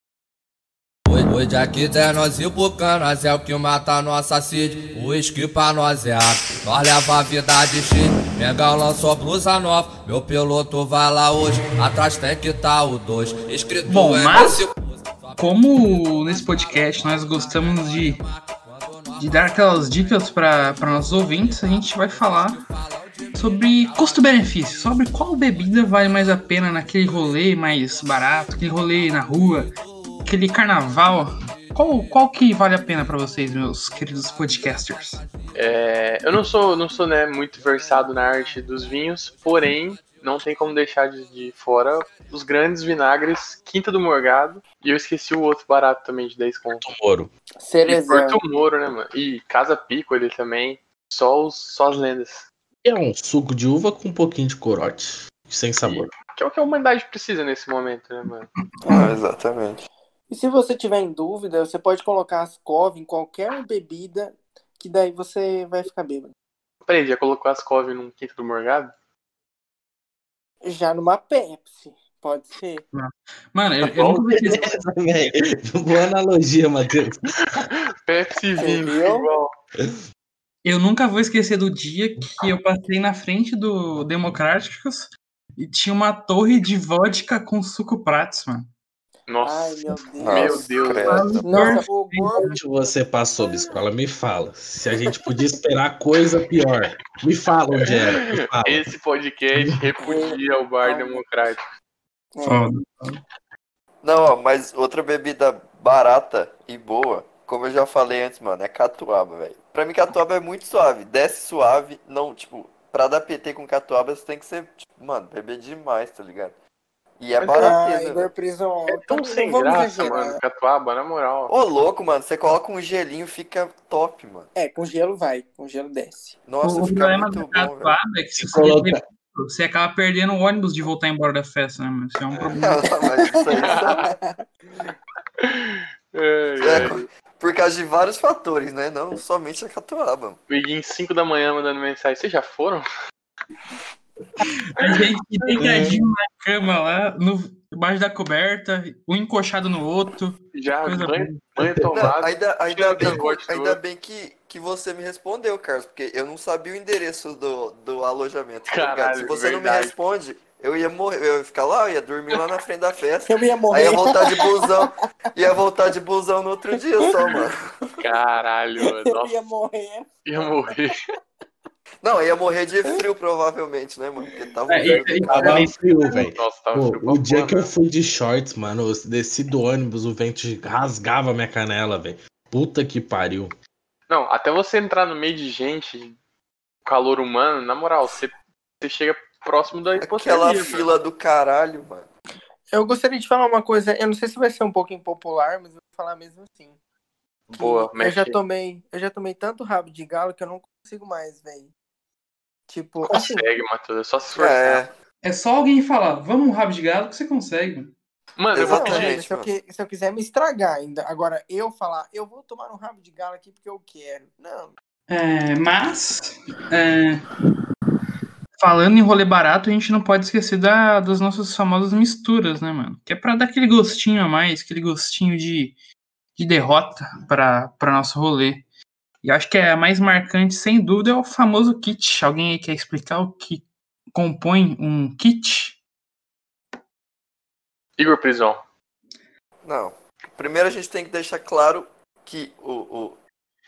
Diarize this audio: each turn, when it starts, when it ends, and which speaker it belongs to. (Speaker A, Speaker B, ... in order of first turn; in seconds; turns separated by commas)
Speaker A: 1.1-14.8, Speaker B: 13.9-14.6, Speaker B: 15.4-18.2, Speaker B: 19.2-22.6, Speaker B: 23.4-29.7, Speaker B: 30.2-35.2, Speaker C: 35.5-46.9, Speaker D: 46.8-47.3, Speaker E: 47.6-48.4, Speaker C: 47.9-52.5, Speaker D: 52.8-56.1, Speaker C: 55.8-58.5, Speaker F: 58.9-59.9, Speaker E: 60.3-66.3, Speaker C: 66.9-68.9, Speaker E: 70.6-72.8, Speaker B: 72.9-74.8, Speaker D: 73.9-77.7, Speaker C: 78.0-79.5, Speaker E: 78.6-79.3, Speaker B: 80.6-88.7, Speaker C: 89.3-91.3, Speaker E: 89.4-90.7, Speaker F: 90.2-91.7, Speaker B: 91.0-92.6, Speaker E: 91.4-92.5, Speaker D: 92.4-98.9, Speaker C: 98.6-101.6, Speaker E: 100.0-101.2, Speaker E: 102.3-102.6, Speaker B: 102.4-103.2, Speaker F: 104.0-116.6, Speaker F: 117.2-118.3, Speaker E: 117.4-120.4, Speaker C: 118.9-121.5, Speaker F: 121.5-124.5, Speaker E: 124.5-126.4, Speaker F: 126.5-128.0, Speaker B: 126.6-132.8, Speaker D: 128.4-129.0, Speaker F: 132.6-134.1, Speaker E: 133.2-134.4, Speaker C: 133.7-134.0, Speaker C: 135.4-137.1, Speaker F: 136.6-140.4, Speaker C: 140.5-142.8, Speaker B: 144.8-151.4, Speaker D: 145.6-146.0, Speaker C: 150.5-153.8, Speaker F: 151.9-167.7, Speaker C: 158.7-159.9, Speaker E: 163.3-164.9, Speaker E: 166.7-167.4, Speaker C: 168.0-169.4, Speaker E: 169.0-170.1, Speaker C: 170.2-171.0, Speaker F: 172.0-175.6, Speaker B: 174.7-175.8, Speaker C: 174.9-177.7, Speaker D: 175.3-183.6, Speaker C: 184.1-186.2, Speaker C: 186.8-190.9, Speaker F: 190.0-192.1, Speaker E: 192.7-196.8, Speaker C: 197.5-198.4, Speaker E: 197.6-201.7, Speaker E: 202.7-203.5, Speaker C: 203.1-204.8, Speaker F: 204.3-204.9, Speaker B: 205.2-207.9, Speaker C: 208.4-209.2, Speaker F: 208.5-209.5, Speaker E: 208.6-214.7, Speaker B: 215.1-217.2, Speaker B: 218.6-225.8, Speaker B: 226.4-228.7, Speaker B: 229.2-235.8, Speaker C: 238.0-238.6, Speaker F: 239.6-243.2